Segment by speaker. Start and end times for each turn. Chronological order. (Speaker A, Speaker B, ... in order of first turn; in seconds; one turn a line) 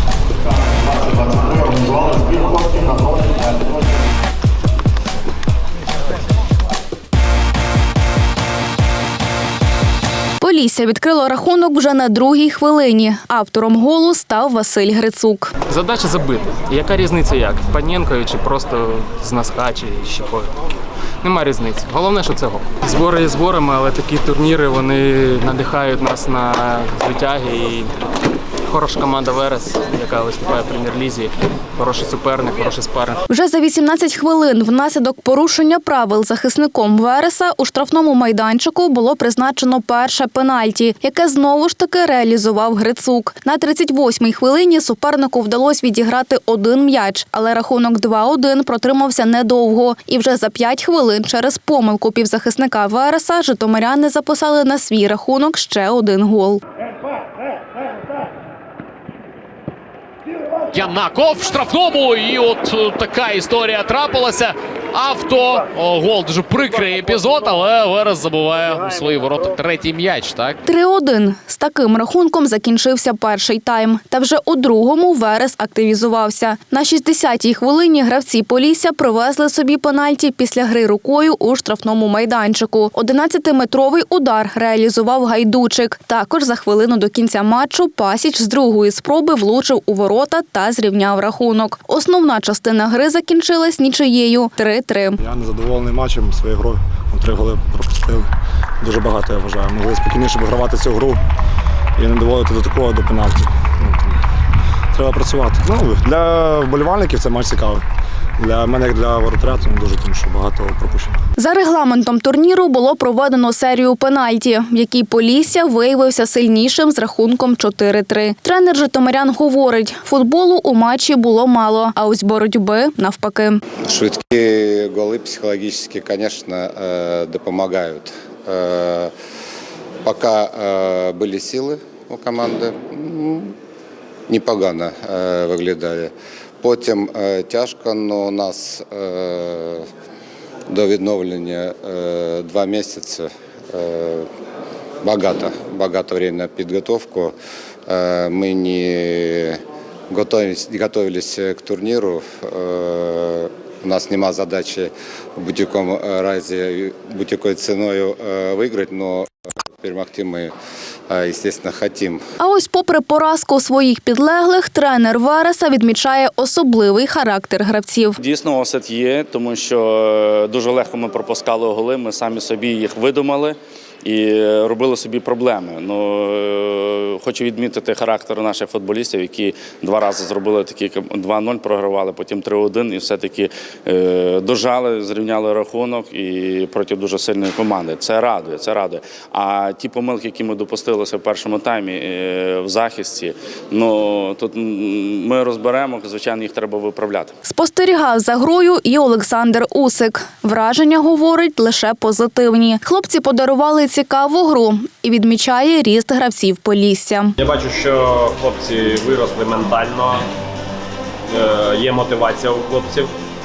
Speaker A: 10.4-15.6
Speaker B: 15.7-20.5
Speaker B: 21.2-27.9
Speaker B: 28.7-33.2
Speaker A: 33.3-56.6
Speaker C: 60.7-70.6
Speaker A: 70.7-95.2
Speaker D: 95.2-101.2
Speaker D: 102.0-104.2
Speaker D: 104.9-107.8
Speaker D: 108.4-111.2
Speaker A: 111.4-123.6
Speaker E: 123.9-129.1
Speaker E: 130.0-133.5
Speaker E: 134.3-139.9
Speaker E: 140.7-144.3
Speaker E: 145.0-147.3
Speaker E: 147.9-159.3
Speaker E: 159.8-160.5
Speaker E: 161.1-162.2
Speaker A: 162.4-168.2
Speaker F: 168.2-197.3
Speaker A: 197.4-207.3
Speaker G: 207.4-210.2
Speaker G: 211.3-213.1